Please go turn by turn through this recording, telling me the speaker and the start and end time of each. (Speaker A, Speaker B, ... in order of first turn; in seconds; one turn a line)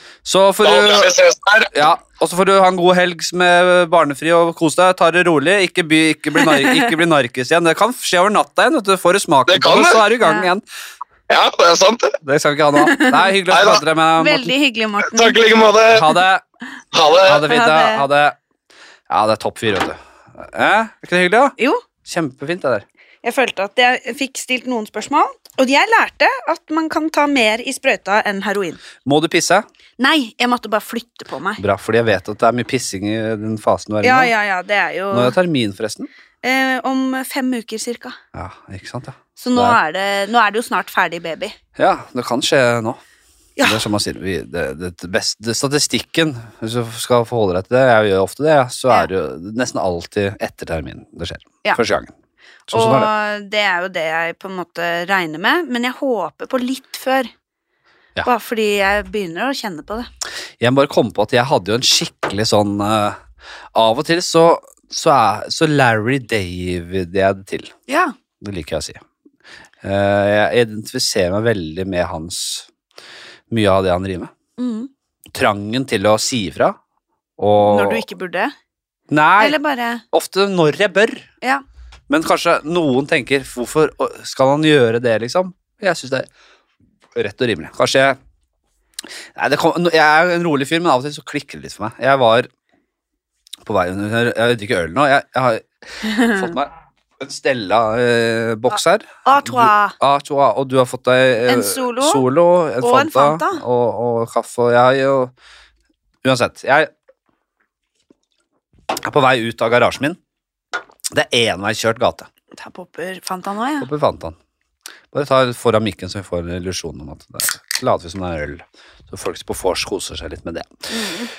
Speaker A: 0.2-1.1
Speaker B: 0.6-1.7
Speaker A: 1.7-10.6
Speaker C: 6.4-6.9
Speaker B: 9.5-10.0
Speaker C: 10.2-10.5
Speaker B: 11.3-12.2
Speaker A: 12.2-14.5
Speaker C: 12.8-13.3
Speaker B: 13.5-13.8
Speaker C: 14.2-15.4
Speaker B: 15.0-16.1
Speaker A: 15.9-16.4
Speaker B: 16.9-17.4
Speaker A: 17.2-18.4
Speaker C: 17.4-18.1
Speaker A: 19.1-22.8
Speaker C: 23.2-28.8
Speaker A: 29.0-29.6
Speaker C: 30.0-31.6
Speaker A: 31.6-34.3
Speaker C: 34.0-35.4
Speaker A: 35.1-36.1
Speaker C: 36.4-38.2
Speaker A: 38.3-39.8
Speaker C: 39.4-41.5
Speaker A: 41.8-43.0
Speaker A: 43.6-52.1
Speaker A: 52.7-53.1
Speaker C: 52.7-57.3
Speaker C: 58.2-60.1
Speaker A: 60.6-63.2
Speaker A: 63.7-67.7
Speaker C: 67.9-68.1
Speaker A: 68.4-69.0
Speaker A: 69.8-72.7
Speaker A: 73.5-74.3
Speaker C: 74.6-74.9
Speaker A: 75.3-76.8
Speaker A: 77.4-78.0
Speaker C: 77.6-78.5
Speaker A: 79.1-79.6
Speaker C: 79.4-80.0
Speaker A: 80.1-81.2
Speaker A: 82.1-86.3
Speaker A: 87.1-88.2
Speaker A: 89.3-92.5
Speaker A: 93.7-105.3
Speaker C: 96.0-96.5
Speaker C: 99.2-99.9
Speaker C: 101.5-102.2
Speaker C: 102.8-103.6
Speaker A: 106.2-106.9
Speaker A: 109.0-110.2
Speaker A: 111.1-112.3
Speaker C: 112.5-113.9
Speaker A: 113.8-114.3
Speaker A: 115.1-120.9
Speaker C: 120.9-121.3